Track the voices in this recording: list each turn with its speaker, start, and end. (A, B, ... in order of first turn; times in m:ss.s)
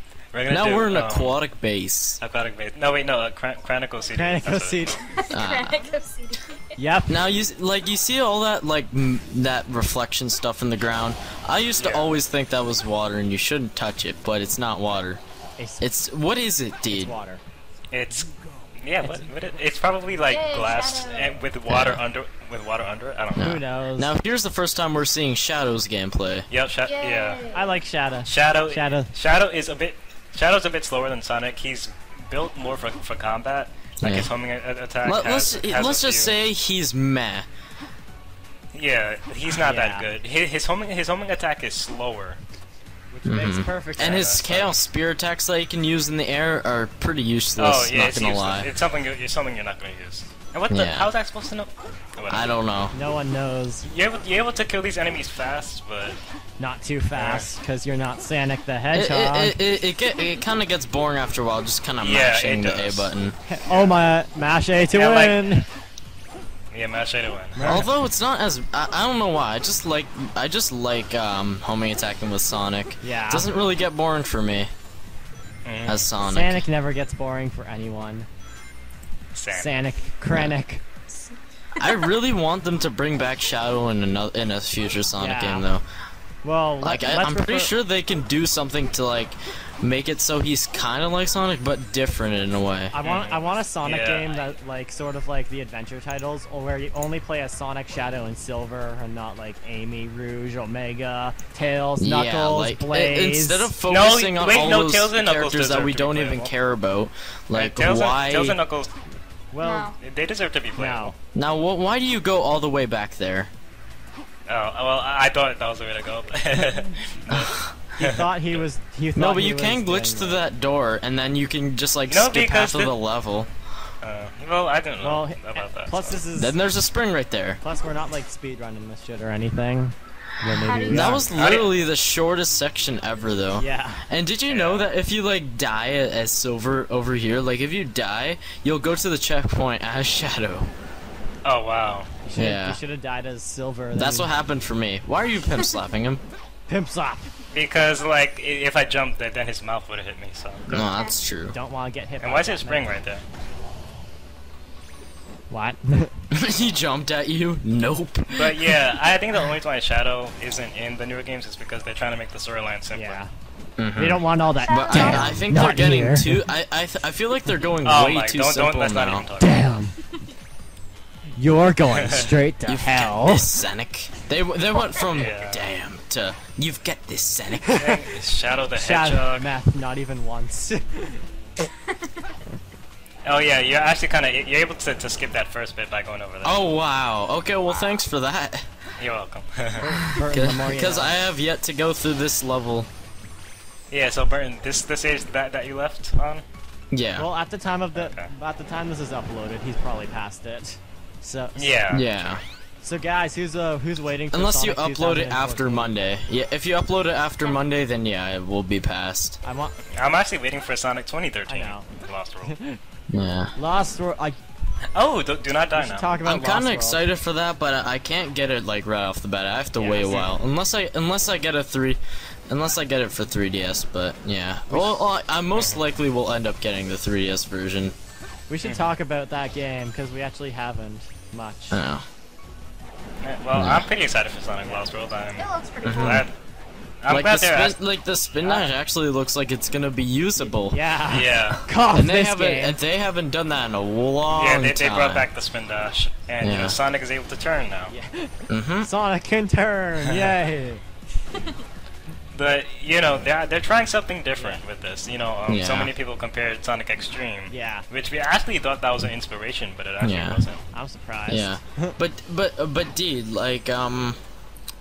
0:00.3-0:01.4 A
0:00.5-0:02.2 B
0:02.2-0:05.0 A
0:04.1-0:05.1 C
0:05.1-0:06.7 D
0:05.3-0:05.8 B
0:06.8-0:07.2 C
0:07.1-0:15.2 B
0:11.8-0:12.1 A
0:15.6-0:15.9 C
0:15.8-0:17.1 B
0:16.9-0:17.4 C
0:17.9-0:23.6 A
0:20.3-0:21.4 D
0:21.7-0:22.0 B
0:23.4-0:26.5 B
0:23.4-0:24.1 C
0:26.5-0:27.4 A
0:26.9-0:27.8 D
0:27.5-0:29.1 C
0:28.2-0:36.4 A
0:34.0-0:34.3 B
0:35.0-0:37.5 B
0:38.7-0:42.4 A
0:39.6-0:40.1 C
0:43.1-0:44.2 C
0:43.2-0:48.7 B
0:44.0-0:44.8 A
0:47.6-0:52.5 A
0:50.7-0:51.1 B
0:52.3-0:52.9 B
0:52.9-0:53.9 C
0:53.8-0:56.2 A
0:56.6-0:59.6 C
0:57.2-0:57.5 A
0:58.9-1:03.4 B
1:02.0-1:03.1 A
1:03.5-1:05.7 C
1:03.7-1:04.0 A
1:04.9-1:05.5 A
1:06.7-1:07.8 A
1:07.6-1:07.9 C
1:07.6-1:14.7 B
1:13.0-1:13.5 C
1:15.6-1:16.1 A
1:15.9-1:16.6 B
1:16.2-1:18.3 C
1:19.3-1:19.8 A
1:19.5-1:20.8 C
1:21.8-1:25.8 B
1:25.2-1:25.7 C
1:26.4-1:27.7 C
1:26.8-1:32.9 B
1:32.9-1:43.7 C
1:33.0-1:34.5 A
1:42.0-1:48.6 B
1:43.9-1:46.5 A
1:47.5-1:49.0 A
1:49.5-1:49.9 C
1:49.6-1:50.0 D
1:50.0-1:51.1 A
1:50.8-1:51.2 C
1:51.4-1:53.5 B
1:54.5-1:58.6 A
1:57.3-1:57.7 B
1:58.0-2:00.5 C
1:59.2-2:03.5 B
2:02.1-2:03.0 A
2:04.0-2:06.2 A
2:05.0-2:06.6 C
2:06.4-2:07.6 B
2:07.6-2:11.3 C
2:10.6-2:11.3 D
2:10.8-2:20.7 B
2:11.3-2:11.7 A
2:13.6-2:14.0 C
2:14.5-2:14.9 A
2:21.4-2:22.1 A
2:22.2-2:24.3 C
2:22.4-2:22.8 B
2:23.9-2:26.2 B
2:26.7-2:27.3 C
2:27.5-2:30.8 A
2:30.7-2:31.5 B
2:30.9-2:31.2 D
2:31.5-2:33.0 C
2:32.2-2:33.2 A
2:35.5-2:36.1 C
2:36.3-2:38.7 B
2:38.3-2:43.2 A
2:42.9-2:43.3 C
2:43.8-2:49.3 B
2:44.0-2:46.4 C
2:44.6-2:45.5 D
2:47.8-2:49.7 A
2:49.4-2:50.0 C
2:51.4-2:53.5 C
2:51.9-2:52.3 A
2:52.7-2:57.9 B
2:55.1-2:55.7 A
2:57.6-2:57.9 C
2:57.8-2:59.5 A
2:58.8-3:01.2 C
3:03.2-3:06.6 A
3:06.4-3:08.7 B
3:09.0-3:09.9 A
3:09.8-3:11.1 C
3:10.1-3:12.9 B
3:13.9-3:16.4 A
3:16.9-3:17.3 B
3:17.2-3:21.8 C
3:17.9-3:18.3 A
3:21.6-3:22.1 A
3:21.9-3:22.4 B
3:22.8-3:25.9 C
3:24.3-3:29.4 B
3:29.4-3:29.8 C
3:29.9-3:32.6 A
3:31.5-3:31.9 C
3:32.4-3:32.8 C
3:33.1-3:33.5 B
3:33.6-3:34.4 C
3:34.9-3:36.2 A
3:35.7-3:37.0 C
3:36.2-3:47.9 B
3:39.8-3:40.2 C
3:40.0-3:40.3 A
3:45.5-3:45.8 A
3:48.5-3:51.8 C
3:48.6-3:48.9 A
3:51.7-3:52.0 B
3:53.2-3:56.3 A
3:53.5-3:53.9 B
3:55.4-3:56.3 D
3:55.8-3:56.3 B
3:57.0-3:57.8 A
3:57.1-4:01.3 B
4:00.4-4:02.8 C
4:01.1-4:01.6 A
4:01.9-4:05.3 B
4:04.3-4:08.0 A
4:06.4-4:06.8 B
4:07.9-4:10.8 C
4:08.5-4:08.9 B
4:10.0-4:10.3 A
4:12.3-4:20.6 A
4:14.4-4:14.6 C
4:15.5-4:15.9 B
4:17.5-4:17.9 C
4:20.0-4:20.4 B
4:20.7-4:21.9 C
4:21.3-4:24.2 B